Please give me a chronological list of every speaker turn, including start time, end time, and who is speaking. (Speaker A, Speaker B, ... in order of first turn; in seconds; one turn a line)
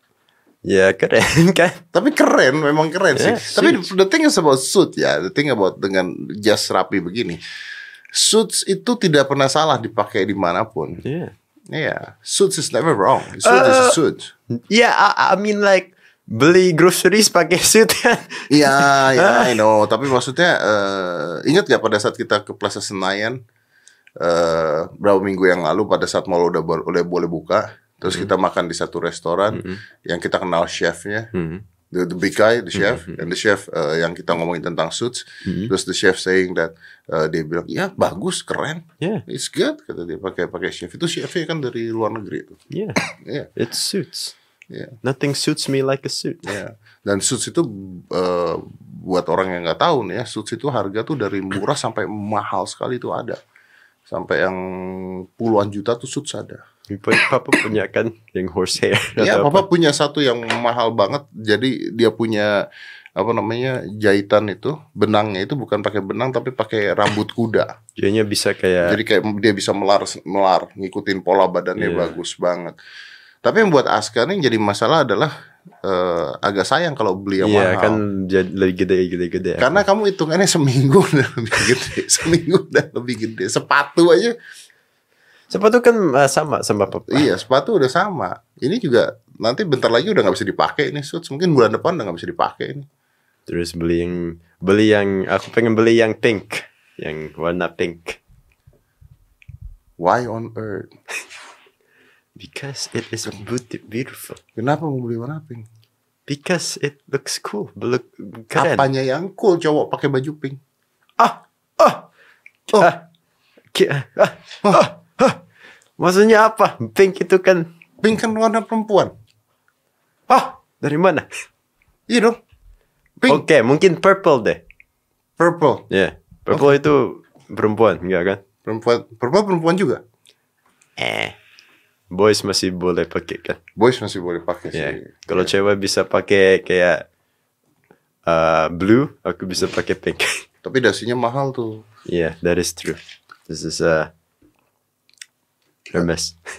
Speaker A: 0.6-1.8
Speaker B: 1.9-7.4
Speaker A: 3.1-3.9
Speaker B: 8.1-11.0
Speaker A: 11.0-11.3
Speaker B: 11.7-14.3
Speaker A: 13.4-14.0
Speaker A: 14.5-19.6
Speaker B: 18.5-23.4
Speaker B: 24.2-31.3
Speaker A: 29.5-29.8
Speaker A: 31.3-31.6
Speaker B: 31.9-43.5
Speaker A: 32.7-33.2
Speaker A: 35.5-35.7
Speaker A: 42.7-43.0
Speaker A: 43.5-44.3
Speaker A: 45.0-46.5
Speaker B: 46.4-53.4
Speaker B: 54.1-56.6
Speaker A: 56.9-59.7
Speaker B: 59.2-62.6
Speaker B: 63.2-67.7
Speaker A: 68.0-69.0
Speaker B: 68.8-72.7
Speaker A: 71.8-72.2
Speaker B: 73.4-75.3
Speaker B: 75.8-78.0
Speaker A: 77.4-79.8
Speaker B: 79.6-84.3
Speaker A: 85.5-87.3
Speaker B: 87.1-92.8
Speaker A: 93.5-98.2
Speaker B: 100.0-100.9
Speaker A: 102.3-104.4
Speaker B: 104.5-105.7
Speaker A: 106.3-108.8
Speaker B: 108.5-110.6
Speaker A: 111.2-112.1
Speaker A: 112.8-113.0
Speaker A: 113.7-115.4
Speaker A: 116.0-117.7
Speaker B: 118.0-119.1
Speaker A: 120.3-121.2
Speaker B: 122.1-122.4
Speaker A: 123.3-124.6
Speaker B: 125.4-125.8
Speaker A: 125.9-128.4
Speaker B: 128.6-130.0
Speaker A: 131.0-131.3
Speaker A: 132.1-133.6
Speaker B: 133.8-135.5
Speaker A: 134.7-137.1
Speaker A: 138.2-140.4
Speaker B: 140.6-141.8
Speaker A: 142.1-144.1
Speaker A: 145.9-146.4